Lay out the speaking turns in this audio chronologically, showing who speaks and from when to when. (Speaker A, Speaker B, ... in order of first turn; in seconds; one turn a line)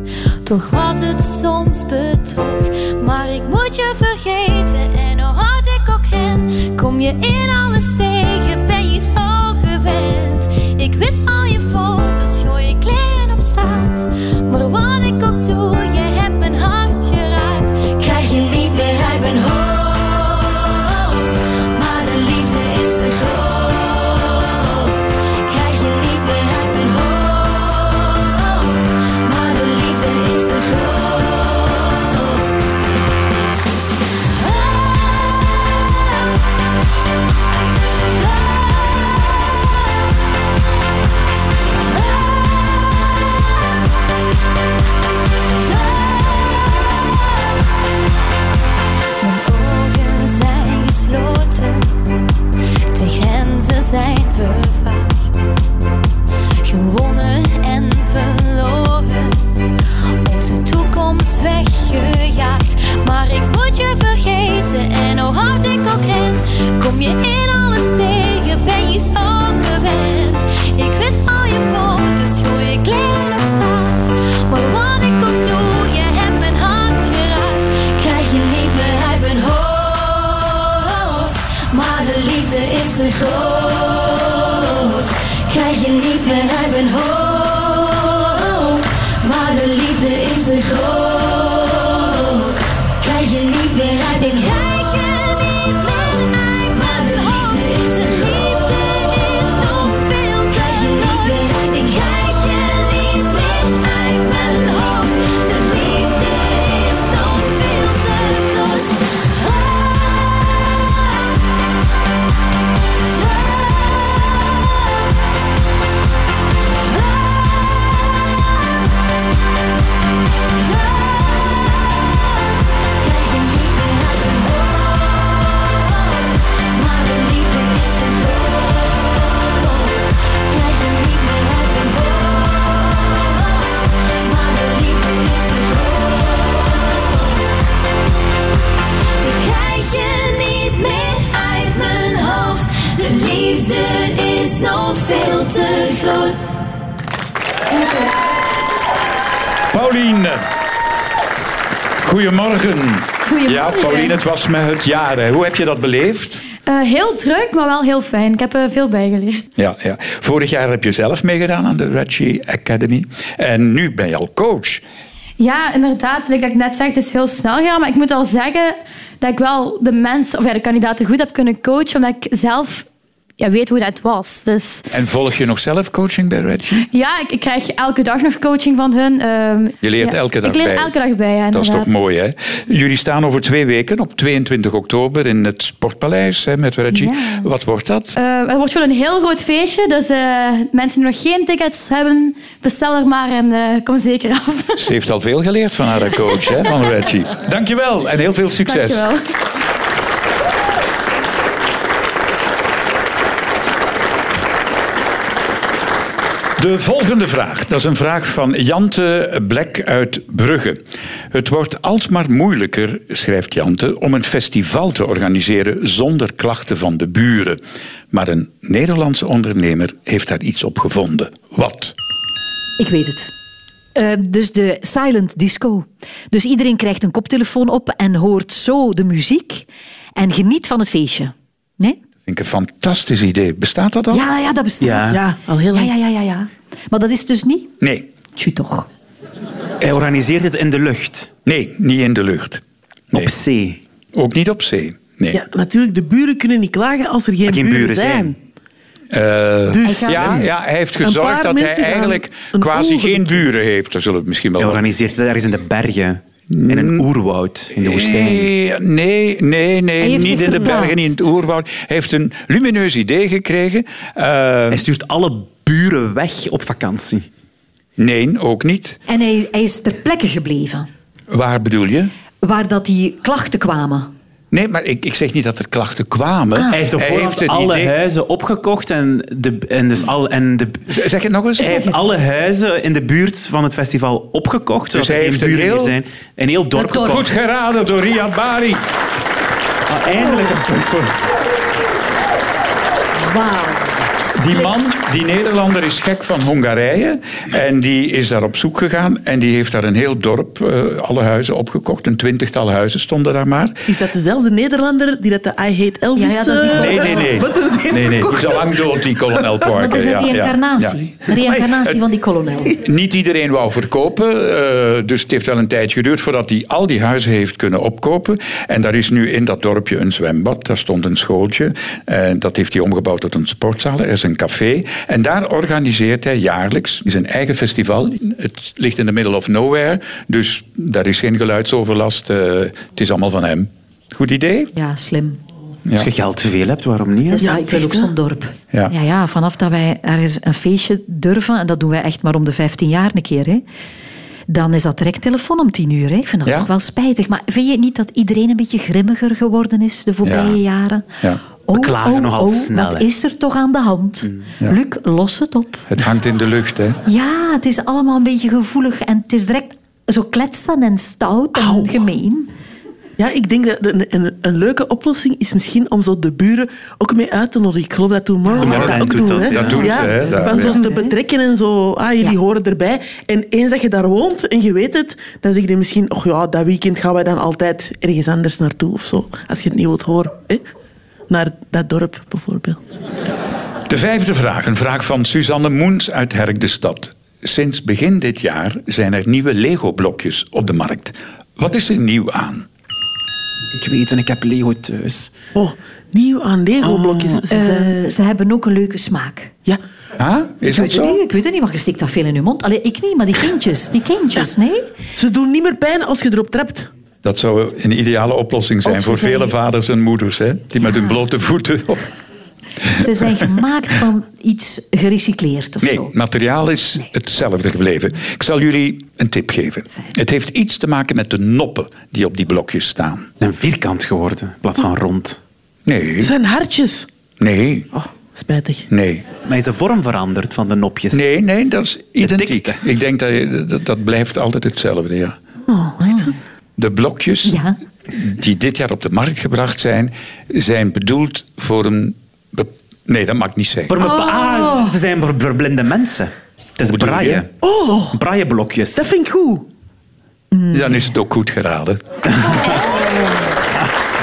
Speaker A: 0.4-32.5
Speaker A: 34.5-35.5
Speaker A: 38.2-39.3
Speaker A: 42.0-42.8
Speaker A: 45.6-47.2
Speaker A: 49.2-52.1
Speaker A: 52.9-55.5
Speaker A: 56.6-59.6
Speaker A: 60.2-110.4
Speaker A: 113.2-114.5
Speaker A: 117.0-117.3
Speaker A: 120.8-121.8
Speaker A: 122.8-137.1
Speaker A: 139.2-146.5
Speaker B: 147.7-148.1
Speaker C: 149.7-150.4
Speaker C: 152.0-156.4
Speaker B: 153.3-154.2
Speaker B: 156.6-159.4
Speaker C: 159.6-164.8
Speaker B: 165.4-172.9
Speaker B: 173.4-174.8
Speaker C: 174.9-176.9
Speaker B: 176.9-182.0
Speaker C: 179.8-180.9
Speaker C: 181.5-188.2
Speaker B: 186.9-187.5
Speaker B: 188.1-194.9
Speaker C: 194.8-199.1
Speaker B: 198.7-199.2
Speaker C: 206.6-210.8
Speaker C: 211.3-217.6
Speaker C: 218.1-221.9
Speaker D: 222.8-223.3
Speaker D: 223.9-232.0
Speaker C: 232.2-234.2
Speaker D: 234.1-237.7
Speaker E: 234.8-235.2
Speaker F: 235.1-235.9
Speaker C: 237.8-238.1
Speaker D: 238.3-238.9
Speaker E: 239.8-241.3
Speaker C: 241.4-243.3
Speaker E: 243.1-243.8
Speaker C: 244.1-245.4
Speaker F: 245.3-248.4
Speaker E: 247.5-248.3
Speaker C: 249.1-254.8
Speaker F: 249.7-253.4
Speaker D: 249.8-250.5
Speaker E: 254.6-258.5
Speaker C: 256.5-257.1
Speaker C: 257.8-264.8
Speaker D: 260.0-261.3
Speaker E: 264.7-267.2
Speaker C: 268.0-269.0
Speaker D: 269.1-270.9
Speaker C: 271.3-272.1
Speaker D: 272.4-274.1
Speaker C: 274.5-277.9
Speaker D: 276.5-276.8
Speaker E: 276.7-280.9
Speaker C: 280.9-281.9
Speaker E: 281.6-287.3
Speaker D: 281.6-281.9
Speaker C: 284.9-286.0
Speaker C: 286.8-288.8
Speaker E: 289.9-291.1
Speaker D: 293.4-293.8
Speaker C: 294.3-303.9
Speaker F: 303.9-309.0
Speaker D: 306.1-307.4
Speaker C: 306.7-311.0
Speaker D: 309.6-312.8
Speaker C: 312.8-334.7
Speaker D: 334.7-335.4
Speaker E: 335.9-337.5
Speaker D: 337.3-343.6
Speaker F: 337.4-338.1
Speaker D: 344.5-351.1
Speaker C: 350.2-350.6
Speaker D: 351.6-355.9
Speaker E: 351.7-353.1
Speaker C: 355.9-357.0
Speaker D: 357.0-362.5
Speaker F: 361.5-361.9
Speaker F: 363.2-380.6
Speaker E: 368.5-370.1
Speaker C: 368.6-370.8
Speaker D: 370.2-371.1
Speaker F: 381.3-382.8
Speaker C: 383.9-392.6
Speaker E: 393.7-395.3
Speaker F: 395.5-397.9
Speaker E: 396.8-397.4
Speaker D: 397.5-399.5
Speaker C: 400.2-401.2
Speaker D: 400.7-404.9
Speaker F: 405.1-406.9
Speaker C: 407.2-412.1
Speaker F: 408.9-409.4
Speaker D: 412.9-416.1
Speaker C: 415.8-423.3
Speaker E: 423.4-425.4
Speaker C: 425.9-426.3
Speaker F: 426.2-427.1
Speaker C: 427.4-427.9
Speaker F: 427.9-428.9
Speaker C: 428.9-429.2
Speaker E: 429.4-431.2
Speaker C: 431.1-435.4
Speaker E: 432.2-432.8
Speaker F: 435.7-436.3
Speaker D: 436.0-436.3
Speaker C: 436.8-443.9
Speaker D: 437.4-437.8
Speaker E: 443.9-447.5
Speaker D: 444.0-444.9
Speaker C: 446.8-447.4
Speaker F: 447.6-448.2
Speaker E: 448.1-449.1
Speaker F: 448.9-449.7
Speaker D: 450.5-450.8
Speaker C: 450.7-452.5